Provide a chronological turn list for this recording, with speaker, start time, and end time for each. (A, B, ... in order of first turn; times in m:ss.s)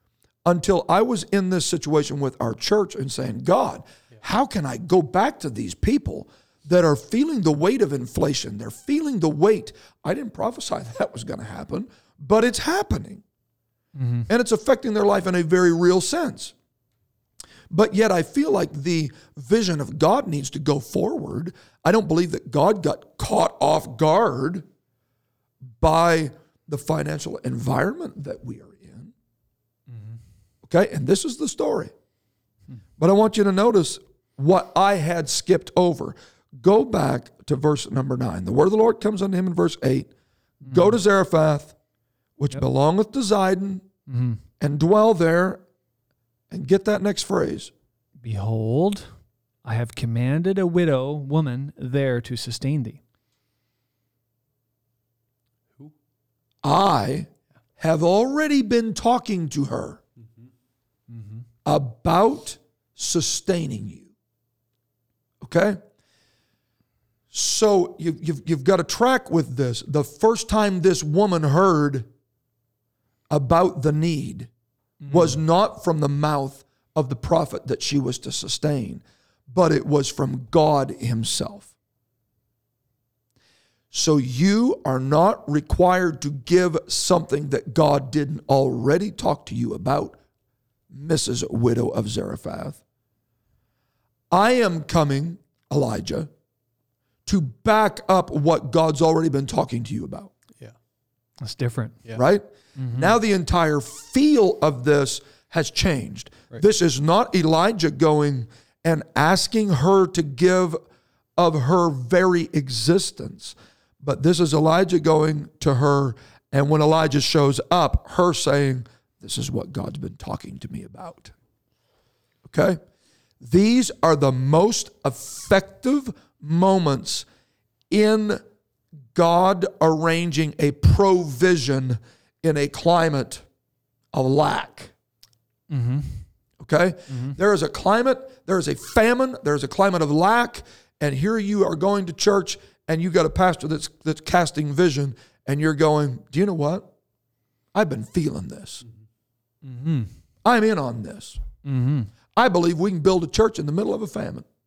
0:00.4-0:13.2 A
0:14.0-0:14.3 B
0:14.3-0:16.5 A
0:17.7-0:24.7 A
0:25.8-0:29.1 A
0:29.9-0:30.2 B
0:30.6-0:31.9 A
0:33.0-0:40.1 A
0:40.6-0:41.8 A
0:40.6-0:40.9 B
0:42.4-0:43.8 A
0:44.1-0:44.4 B
0:44.6-0:45.6 A
0:46.5-0:47.7 A
0:48.2-0:49.1 B
0:49.6-0:53.0 B
0:56.6-1:00.0 A
1:01.1-1:01.4 B
1:01.6-1:04.1 A
1:05.4-1:05.8 A
1:07.3-1:12.1 A
1:13.3-1:14.5 A
1:15.0-1:15.4 B
1:15.1-1:21.7 A
1:23.9-1:30.2 A
1:30.9-1:32.8 A
1:34.3-1:36.3 A
1:37.3-1:40.3 A
1:41.4-1:42.0 B
1:42.2-1:50.8 A
1:42.8-1:43.2 B
1:51.4-2:01.3 A
2:02.5-2:02.8 A
2:03.4-2:07.3 A
2:07.9-2:08.4 A
2:09.1-2:13.4 A
2:14.1-2:14.9 A
2:15.7-2:16.2 B
2:16.6-2:26.9 A
2:27.7-2:28.8 A
2:29.6-2:30.1 B
2:30.4-2:31.4 A
2:31.6-2:32.1 B
2:32.3-2:34.5 A